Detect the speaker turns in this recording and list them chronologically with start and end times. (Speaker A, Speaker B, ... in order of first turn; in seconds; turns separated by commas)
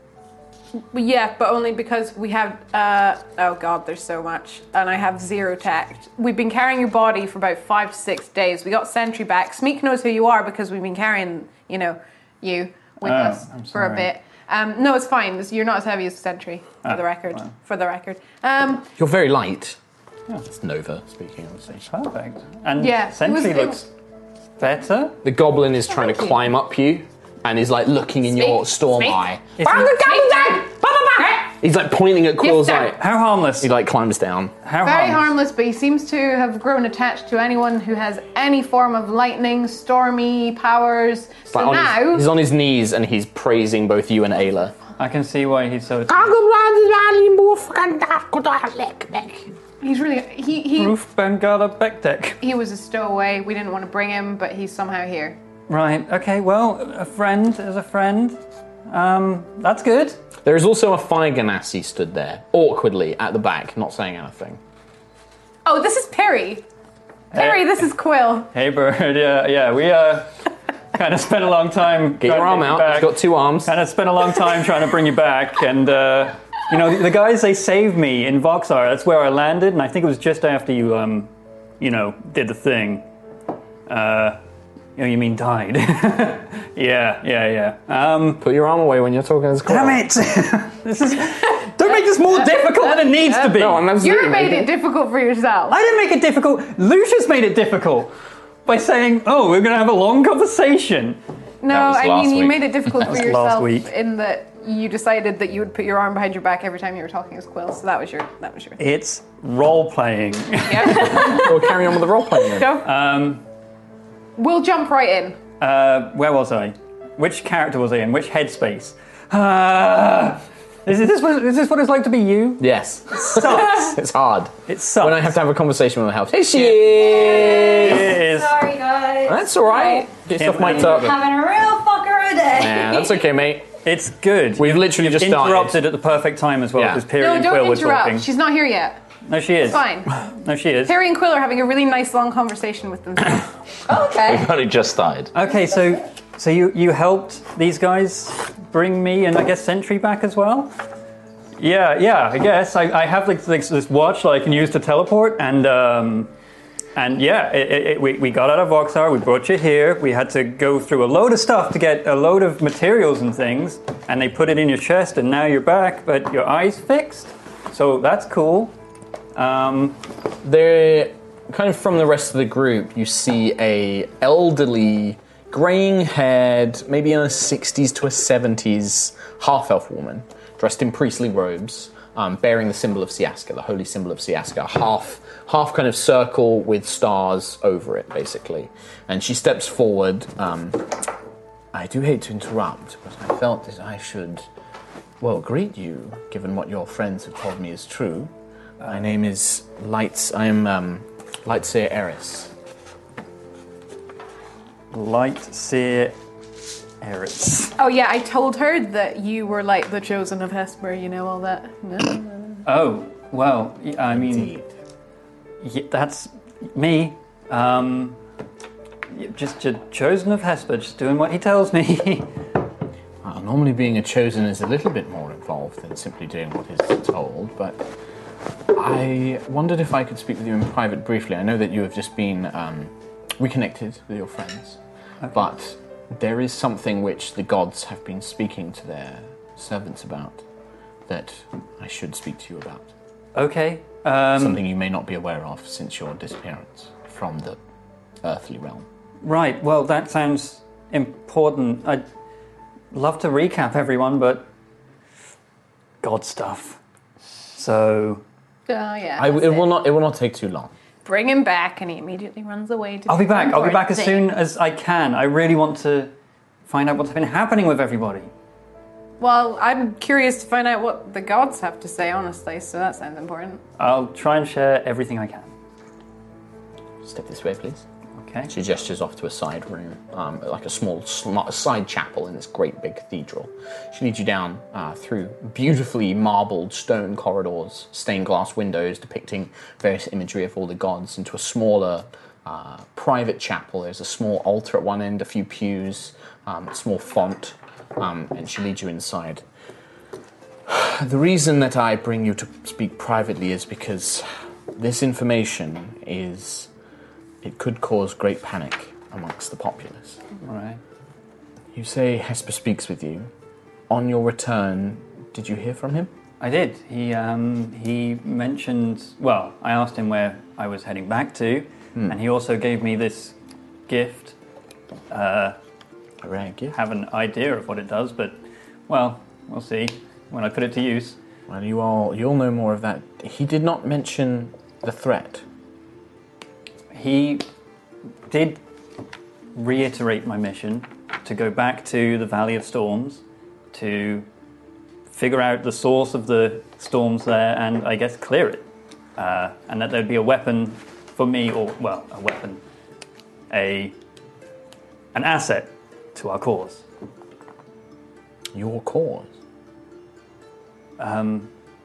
Speaker A: 0.9-18.9, Speaker B: 13.0-14.1, Speaker B: 16.8-17.5, Speaker C: 19.0-19.8, Speaker C: 20.4-21.8, Speaker B: 21.8-23.9, Speaker A: 22.8-23.9, Speaker B: 24.6-25.2, Speaker C: 25.2-33.0, Speaker A: 26.0-26.3, Speaker A: 28.3-31.4, Speaker B: 29.6-29.9, Speaker A: 32.4-33.0, Speaker B: 33.0-33.7, Speaker C: 33.5-34.5, Speaker B: 34.6-35.3, Speaker A: 34.8-42.3, Speaker C: 41.5-44.8, Speaker B: 45.0-46.3, Speaker C: 46.1-49.5, Speaker A: 49.8-51.0, Speaker B: 50.8-52.4, Speaker A: 52.4-55.4, Speaker B: 55.7-60.2, Speaker C: 60.4-64.6, Speaker A: 65.6-66.7, Speaker B: 67.3-67.9, Speaker A: 67.3-68.5, Speaker B: 68.5-70.4, Speaker B: 70.9-83.1, Speaker C: 72.2-73.7, Speaker B: 83.9-84.4, Speaker B: 85.0-88.4, Speaker C: 88.4-90.0, Speaker B: 89.7-93.8, Speaker A: 92.4-95.8, Speaker C: 93.5-94.7, Speaker B: 95.7-98.1, Speaker B: 98.7-101.2, Speaker A: 101.6-108.8, Speaker D: 101.7-103.1, Speaker B: 103.0-103.9, Speaker B: 108.8-111.5, Speaker A: 110.6-111.8, Speaker C: 111.0-112.8, Speaker A: 112.4-112.9, Speaker B: 112.8-113.4, Speaker A: 114.4-115.4, Speaker B: 115.6-124.0, Speaker C: 122.6-128.1, Speaker B: 124.7-125.4, Speaker B: 126.5-126.8, Speaker E: 126.9-130.1, Speaker B: 127.6-128.6, Speaker C: 129.2-131.3, Speaker B: 130.4-131.1, Speaker E: 130.8-133.2, Speaker C: 132.5-133.7, Speaker B: 133.8-138.3, Speaker C: 134.6-135.8, Speaker C: 136.7-137.0, Speaker A: 137.1-139.0, Speaker B: 139.3-140.9, Speaker A: 139.7-140.2, Speaker A: 140.8-143.5, Speaker E: 143.9-144.4, Speaker D: 143.9-145.3, Speaker B: 145.3-150.7, Speaker B: 151.6-156.3, Speaker B: 156.9-168.7, Speaker B: 169.3-170.0, Speaker C: 170.4-191.0, Speaker C: 191.7-194.5, Speaker C: 195.2-198.3, Speaker C: 198.8-202.5, Speaker B: 204.9-206.2, Speaker B: 207.0-207.8, Speaker A: 207.8-212.6, Speaker B: 212.6-214.5, Speaker C: 214.1-214.7, Speaker B: 215.6-218.2, Speaker B: 219.1-222.3, Speaker C: 223.2-227.9, Speaker C: 228.7-234.8, Speaker B: 235.2-235.5, Speaker C: 235.3-240.4, Speaker C: 241.1-242.9, Speaker B: 243.3-244.6, Speaker C: 244.3-247.6, Speaker C: 248.2-248.8, Speaker B: 249.2-252.0, Speaker B: 252.9-254.5, Speaker B: 256.0-256.8, Speaker B: 257.5-258.2, Speaker A: 258.7-259.7, Speaker C: 259.2-260.7, Speaker A: 261.0-264.3, Speaker B: 263.1-266.1, Speaker B: 266.7-268.3, Speaker A: 269.2-273.6, Speaker B: 273.8-275.5, Speaker C: 277.0-277.8, Speaker B: 278.2-278.5, Speaker C: 278.5-299.4, Speaker C: 300.6-306.7, Speaker C: 307.4-310.2, Speaker B: 310.4-310.8, Speaker C: 311.7-313.3, Speaker C: 313.9-316.1, Speaker B: 316.4-323.4, Speaker B: 323.9-324.3, Speaker B: 325.1-325.6, Speaker C: 326.2-326.8, Speaker B: 326.7-331.2, Speaker C: 331.5-335.4, Speaker B: 336.9-337.4, Speaker B: 338.3-338.6, Speaker B: 339.5-344.3, Speaker B: 345.1-348.6, Speaker B: 349.2-352.6, Speaker B: 353.5-353.9, Speaker B: 355.1-356.8, Speaker C: 358.5-359.3, Speaker B: 361.0-361.5